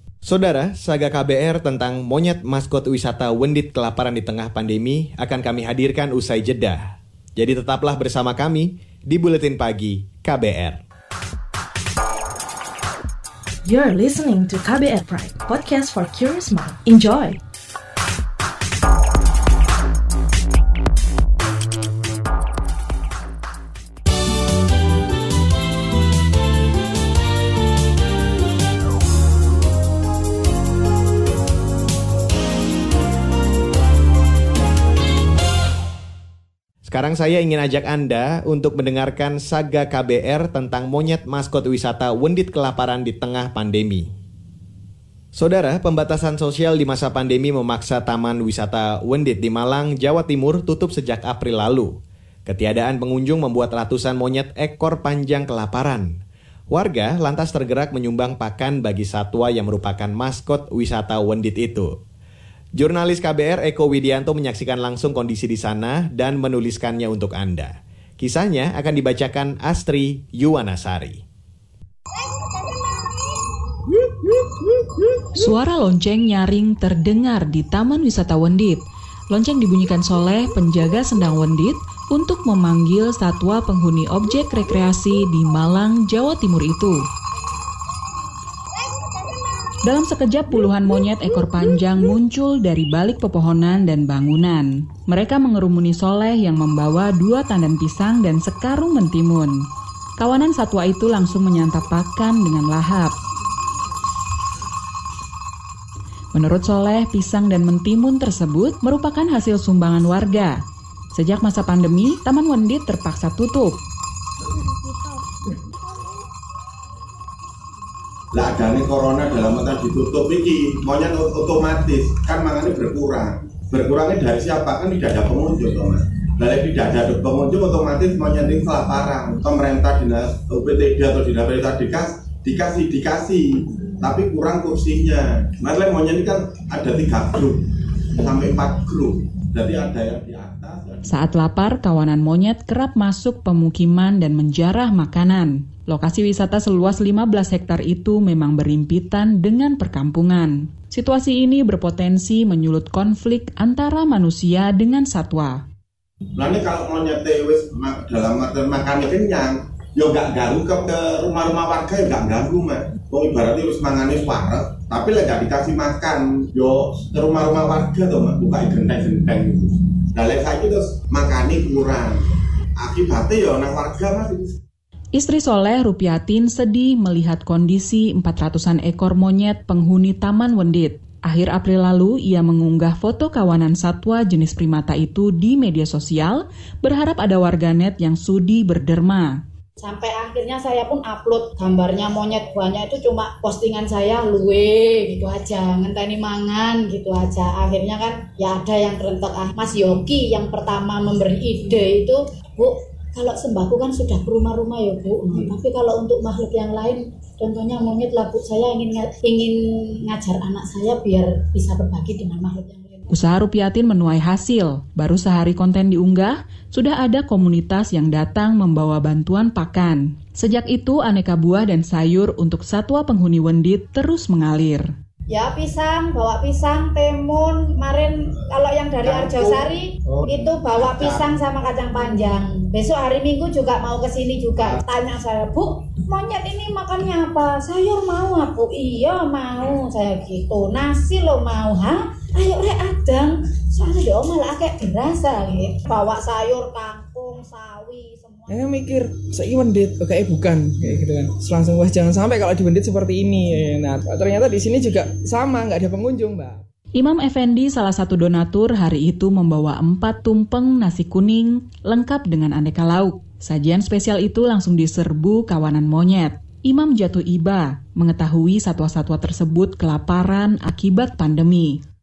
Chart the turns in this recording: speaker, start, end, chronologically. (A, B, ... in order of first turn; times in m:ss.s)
0:00.2-0:10.8 A
0:13.6-0:17.4 B
0:36.8-0:44.1 A
0:45.3-0:51.9 A
0:52.4-1:01.9 A
1:02.7-1:11.2 A
1:15.4-1:27.1 C
1:29.8-1:39.7 C
1:40.2-1:43.1 C
1:46.3-1:50.6 C
1:51.1-1:53.7 C
1:58.3-2:17.6 D
2:18.2-2:21.0 D
2:21.0-2:35.6 C
2:36.4-2:52.2 D
2:52.8-2:54.5 D
2:55.1-3:09.4 C
3:09.8-3:33.1 E
3:33.1-3:44.9 C
3:45.3-4:08.6 E
4:08.5-4:16.6 F
4:16.9-4:31.8 C